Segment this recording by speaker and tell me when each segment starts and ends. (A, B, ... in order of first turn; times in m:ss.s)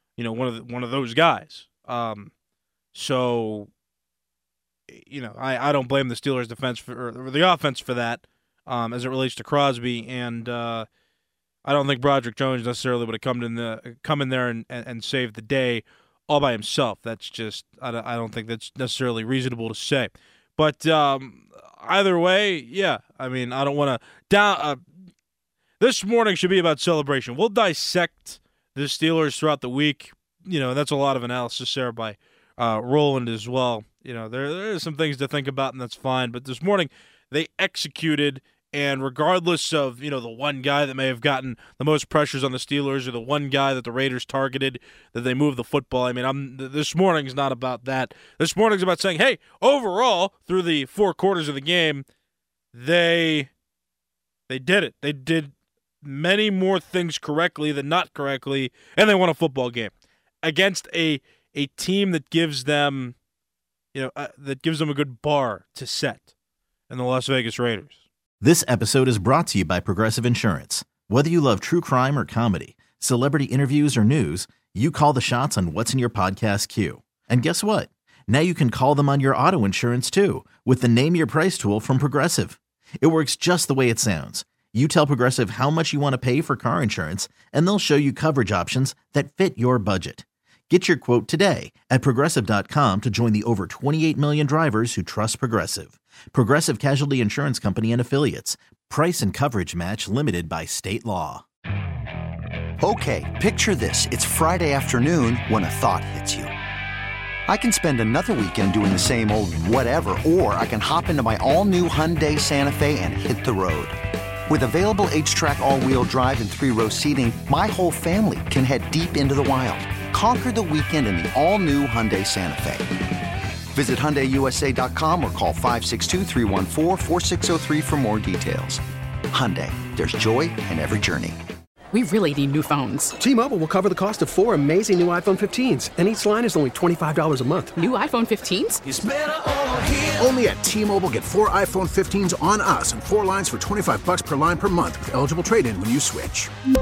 0:00.2-0:02.3 A
0:02.9-0:03.7 A
0:04.9-0:10.9 A
0:11.6-0:24.8 A
0:25.8-0:52.1 A
0:52.7-0:53.5 A
0:54.5-1:03.2 A
1:03.9-1:06.3 A
1:06.9-1:08.0 A
1:08.4-1:41.4 B
1:42.8-1:46.5 C
1:47.5-1:54.0 C
1:54.5-2:02.9 C
2:03.7-2:08.8 C
2:09.3-2:11.4 C
2:11.9-2:13.1 D
2:13.2-2:17.7 E
2:17.7-2:18.8 D
2:21.0-2:25.0 F
2:25.9-2:26.3 F